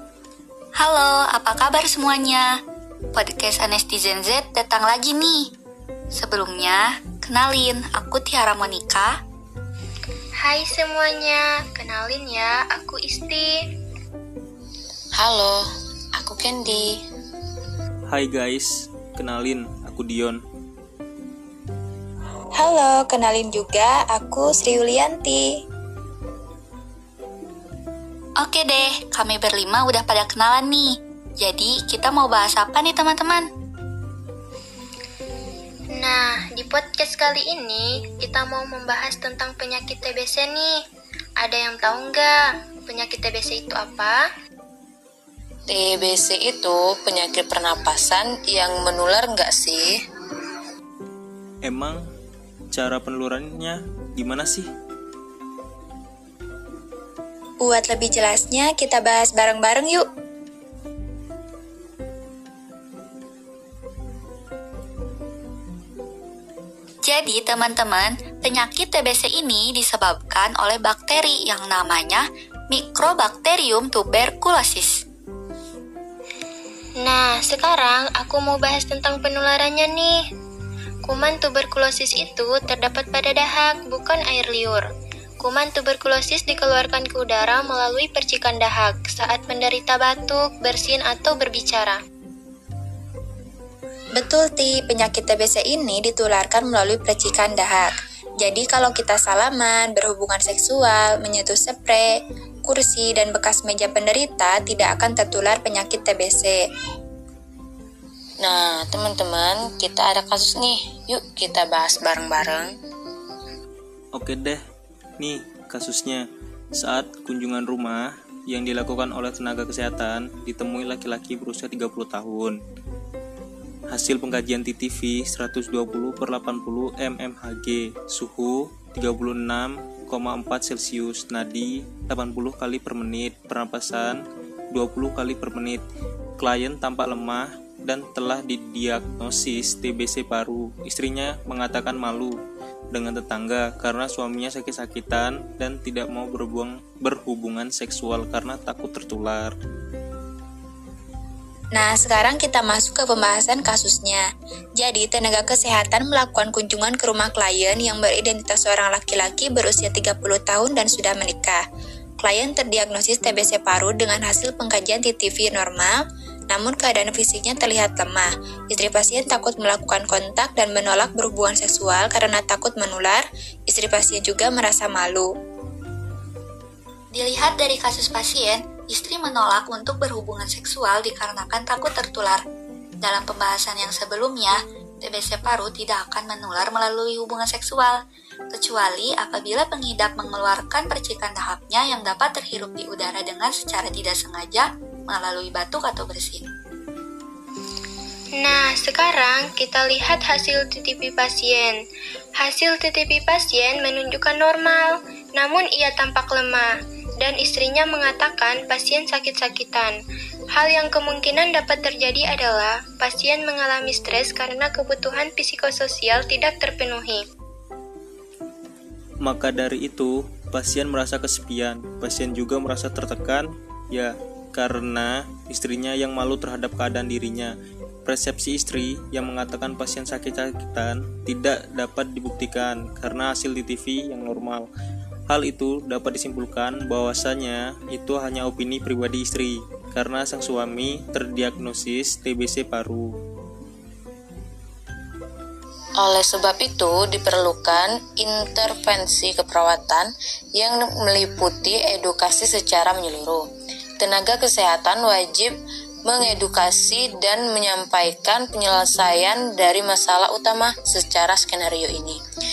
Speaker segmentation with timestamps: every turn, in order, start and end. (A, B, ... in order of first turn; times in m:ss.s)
0:00.7-0:02.6 A
0:03.1-0:05.5 A
0:06.1-0:09.2 A
0:10.4-0:13.6 B
0:15.2-0:17.0 C
0:18.1-0:20.4 D
0:22.6-0:25.5 E
0:28.4-0:33.5 A
0:35.9-0:40.8 B
0:41.4-0:44.2 B
0:45.7-0:50.0 C
0:51.6-0:52.0 D
0:52.7-0:54.7 D
0:57.6-1:00.0 E
1:07.0-1:15.0 A
1:17.0-1:20.2 B
1:21.0-1:24.8 B
1:25.4-1:32.0 B
1:34.2-1:46.6 E
1:48.4-1:52.7 C
1:54.1-1:54.6 D
1:55.2-2:02.6 D
2:03.9-2:15.8 D
2:16.4-2:22.4 D
2:22.9-2:29.5 D
2:31.7-2:34.2 E
2:34.8-2:41.6 E
2:42.2-2:46.0 E
2:46.5-2:55.3 E
2:57.1-3:02.4 A
3:03.0-3:08.0 A
3:08.5-3:16.5 A
3:18.4-3:21.7 B
3:22.4-3:29.9 B
3:30.5-3:37.2 B
3:39.2-3:47.5 D
3:48.0-3:54.7 D
3:55.3-4:03.2 D
4:06.0-4:13.5 C
4:14.0-4:22.2 C